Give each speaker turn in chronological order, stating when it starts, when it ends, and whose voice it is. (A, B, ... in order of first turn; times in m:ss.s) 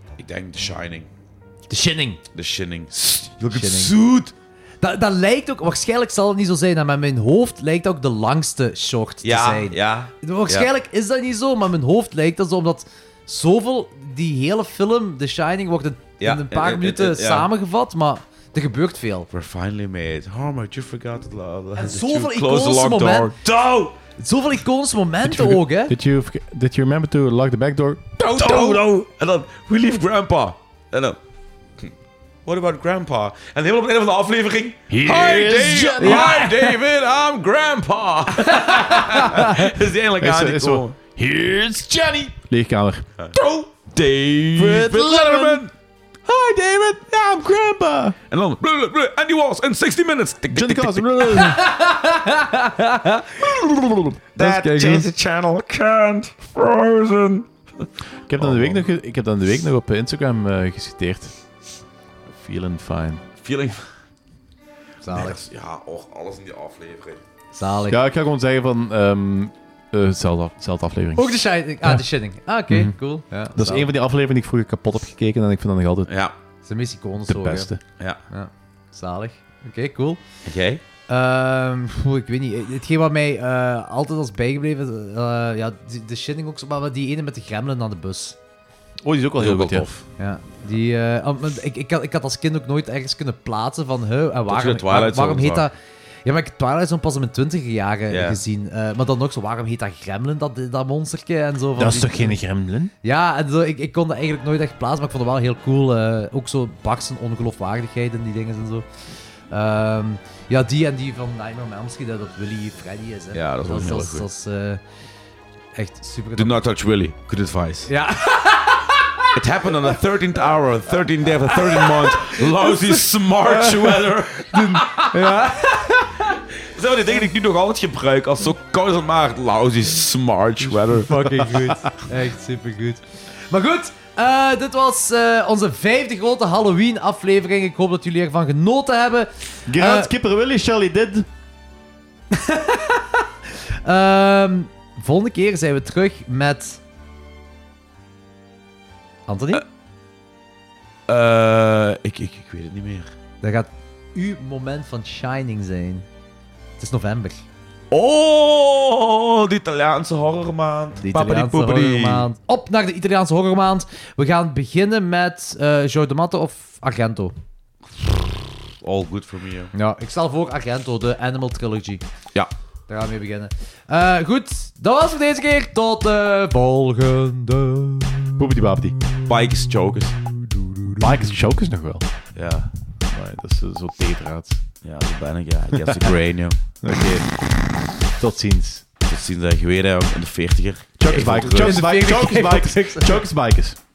0:00.2-0:01.1 A
0:01.7-0:02.2 B
0:02.3-0:04.3 A
0:03.5-0:03.9 B
0:04.8-0:19.3 B
0:09.2-0:10.7 A
0:16.2-0:17.5 A
0:19.3-0:23.9 A
0:21.8-0:23.3 B
0:24.1-0:25.9 B
0:25.2-0:28.8 C
0:28.2-0:31.2 A
0:28.4-0:28.7 B
0:32.4-0:41.0 A
0:34.9-0:36.6 C
0:36.0-0:36.7 B
0:38.5-0:39.3 B
0:38.5-0:39.7 C
0:40.2-0:43.1 C
0:43.2-0:45.7 A
0:44.5-0:45.6 C
0:46.2-0:48.2 C
0:48.3-0:51.5 A
0:50.5-0:51.6 C
0:51.4-0:53.6 B
0:53.4-0:58.8 A
0:54.4-0:55.1 B
0:58.3-1:01.4 C
1:02.3-1:03.2 C
1:03.4-1:03.8 A
1:05.0-1:05.4 B
1:05.1-1:07.2 A
1:07.5-1:08.0 B
1:07.9-1:12.0 C
1:11.2-1:13.9 B
1:12.7-1:13.0 C
1:13.5-1:16.1 C
1:16.1-1:16.3 A
1:16.6-1:17.7 B
1:17.3-1:17.8 C
1:18.3-1:20.2 B
1:20.4-1:20.8 A
1:21.1-1:28.4 B
1:29.0-1:29.9 C
1:29.4-1:30.0 A
1:30.2-1:42.4 B
1:34.5-1:35.7 A
1:38.1-1:38.4 A
1:41.8-1:42.9 C
1:43.0-1:48.8 B
1:49.5-1:54.8 B
1:53.3-1:54.2 A
1:55.7-1:56.6 B
1:56.4-1:57.9 A
1:57.9-1:59.7 B
1:59.3-2:05.4 A
2:01.5-2:06.3 B
2:06.6-2:11.4 A
2:10.9-2:20.1 B
2:19.6-2:21.3 C
2:22.3-2:26.8 B
2:29.3-2:29.6 B
2:31.1-2:33.1 A
2:33.4-2:36.0 B
2:36.8-2:37.4 B
2:37.9-2:42.3 A
2:41.0-2:47.3 B
2:48.8-2:49.7 A
2:49.7-2:52.0 B
2:52.9-2:58.4 B
2:58.4-2:59.0 C
2:59.2-3:00.2 A
3:01.0-3:02.1 C
3:02.4-3:02.7 A
3:03.0-3:04.6 C
3:04.8-3:06.6 A
3:06.8-3:07.3 C
3:08.2-3:08.8 C
3:09.1-3:12.2 A
3:11.0-3:13.8 C
3:11.5-3:13.2 B